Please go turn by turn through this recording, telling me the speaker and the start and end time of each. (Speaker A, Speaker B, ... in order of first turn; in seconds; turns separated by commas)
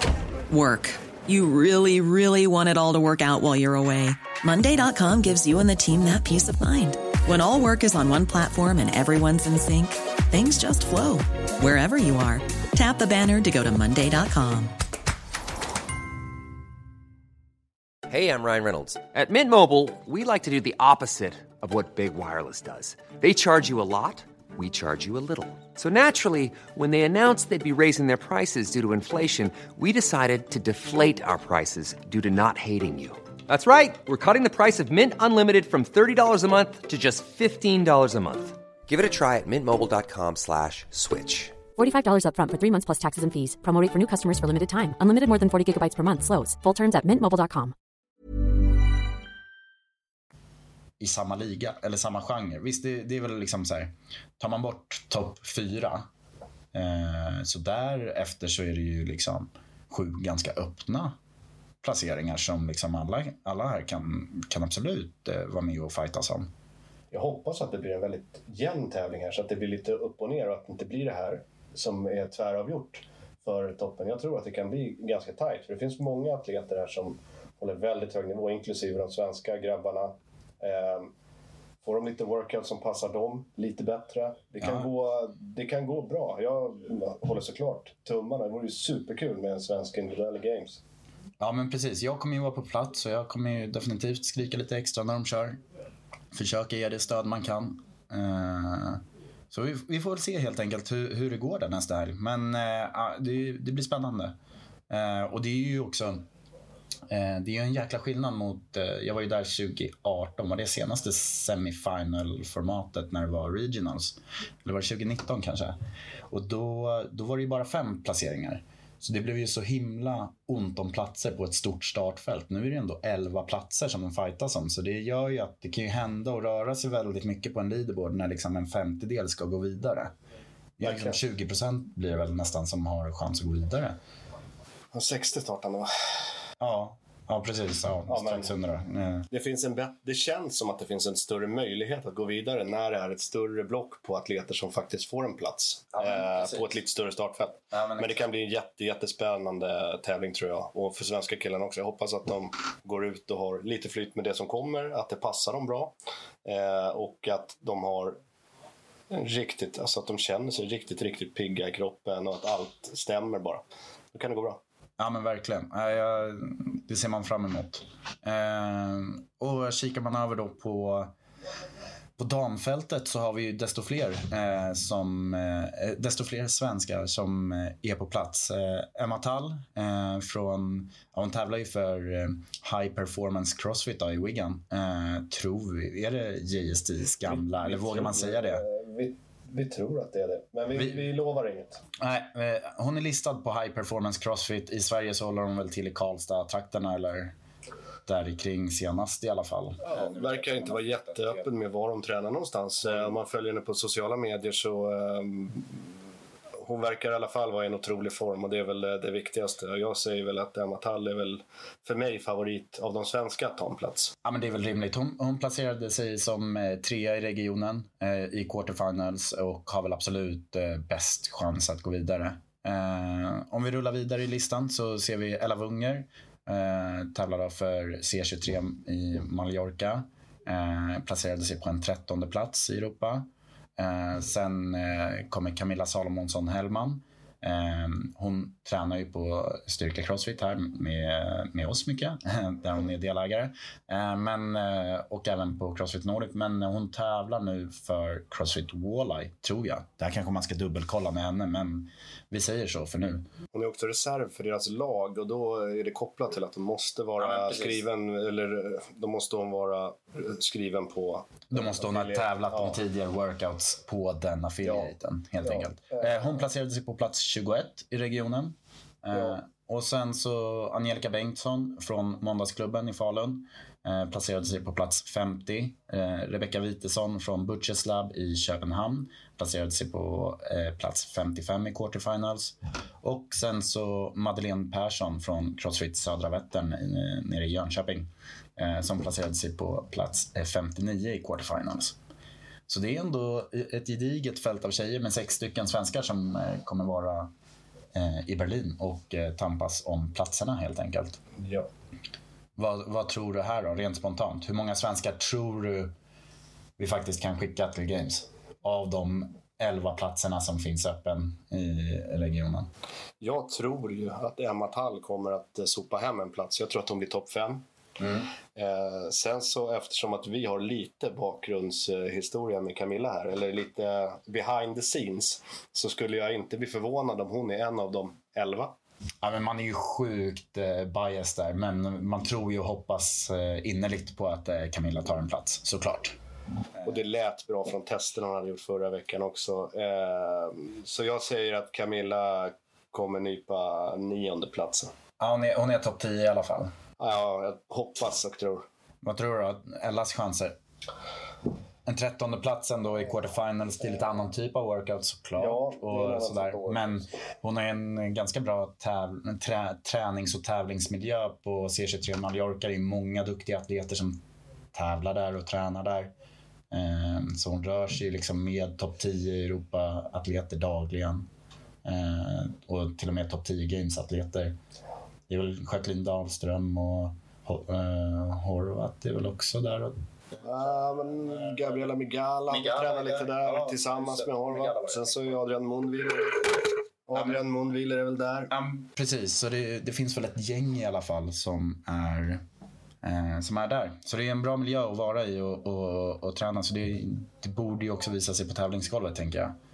Speaker A: 0.5-14.7, Speaker B: 18.1-41.6, Speaker C: 41.8-47.7, Speaker D: 51.0-56.0, Speaker D: 56.7-61.1, Speaker D: 61.8-66.5, Speaker E: 67.1-81.1, Speaker E: 81.8-90.8, Speaker D: 84.6-84.9, Speaker D: 91.4-95.6, Speaker D: 96.3-104.3, Speaker D: 104.9-106.2, Speaker D: 107.1-115.8, Speaker D: 116.3-130.1, Speaker D: 130.8-134.0, Speaker E: 130.8-131.2, Speaker E: 134.9-136.2, Speaker D: 136.6-139.2, Speaker E: 138.1-138.5, Speaker E: 139.3-155.9, Speaker D: 145.9-146.8, Speaker D: 147.7-148.2, Speaker E: 156.4-158.2, Speaker E: 159.1-164.6, Speaker D: 165.0-171.1, Speaker D: 172.2-188.6, Speaker E: 187.2-191.8, Speaker D: 190.7-191.1, Speaker D: 192.0-197.3, Speaker D: 198.1-201.5, Speaker E: 199.8-205.8, Speaker D: 202.8-203.2, Speaker E: 206.6-214.1, Speaker D: 214.2-253.3, Speaker E: 253.5-262.8, Speaker D: 257.2-257.8, Speaker D: 261.5-291.9, Speaker E: 264.6-266.4, Speaker E: 269.1-269.4, Speaker D: 292.7-297.3, Speaker D: 297.9-301.2, Speaker E: 301.4-301.7, Speaker D: 302.6-305.9, Speaker D: 306.8-312.7, Speaker E: 313.2-317.6, Speaker D: 318.0-318.3, Speaker E: 318.5-328.7, Speaker D: 329.2-336.1, Speaker E: 336.8-344.9, Speaker D: 345.2-346.7, Speaker E: 347.0-348.6, Speaker D: 349.0-350.6, Speaker D: 351.9-364.2, Speaker E: 355.4-357.1, Speaker D: 364.7-366.1, Speaker D: 366.7-371.3, Speaker D: 371.8-374.6, Speaker D: 375.3-381.9, Speaker E: 380.4-386.4, Speaker D: 382.5-385.4, Speaker E: 387.1-388.5, Speaker D: 387.1-387.4, Speaker D: 388.5-392.4, Speaker D: 393.0-399.6